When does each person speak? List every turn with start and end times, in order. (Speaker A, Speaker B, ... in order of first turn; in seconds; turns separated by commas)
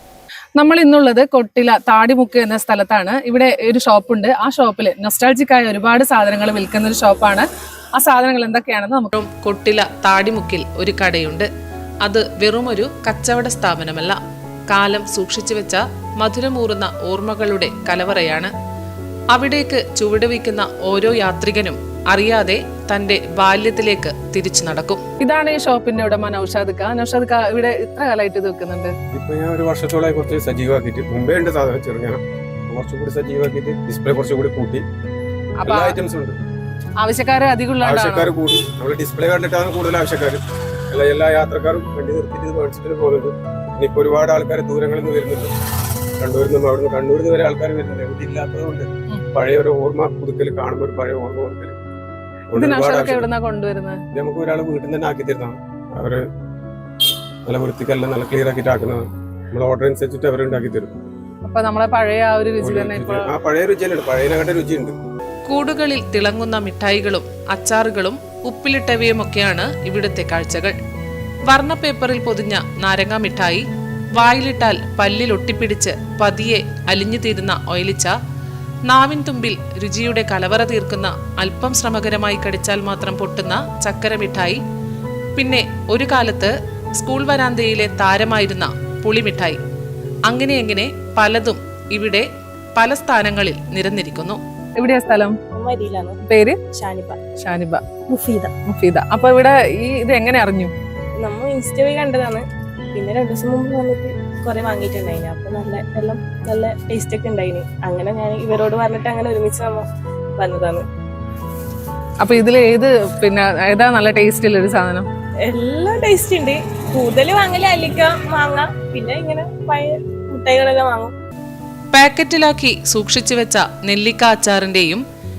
Speaker A: 0.6-9.1, Speaker B: 9.2-11.5, Speaker B: 12.0-14.2, Speaker B: 14.7-18.5, Speaker B: 19.3-25.0, Speaker A: 25.2-28.9, Speaker C: 29.1-34.8, Speaker A: 35.6-36.0, Speaker C: 35.6-36.4, Speaker A: 37.0-38.3, Speaker C: 37.8-45.5, Speaker C: 46.2-51.8, Speaker C: 52.5-53.3, Speaker A: 52.5-54.0, Speaker C: 54.1-56.2, Speaker C: 57.5-61.0, Speaker A: 61.4-63.3, Speaker C: 62.6-65.0, Speaker B: 65.5-70.8, Speaker B: 71.5-73.6, Speaker B: 74.2-78.1, Speaker B: 78.9-84.6, Speaker B: 85.4-89.6, Speaker B: 90.3-94.4, Speaker A: 94.8-95.4, Speaker D: 95.5-96.2, Speaker A: 96.2-96.6, Speaker D: 96.7-97.2, Speaker A: 97.4-98.0, Speaker D: 98.1-98.5, Speaker A: 98.6-100.7, Speaker D: 101.2-109.9, Speaker D: 110.4-110.9, Speaker A: 112.2-115.1, Speaker D: 115.4-121.1, Speaker B: 121.9-125.0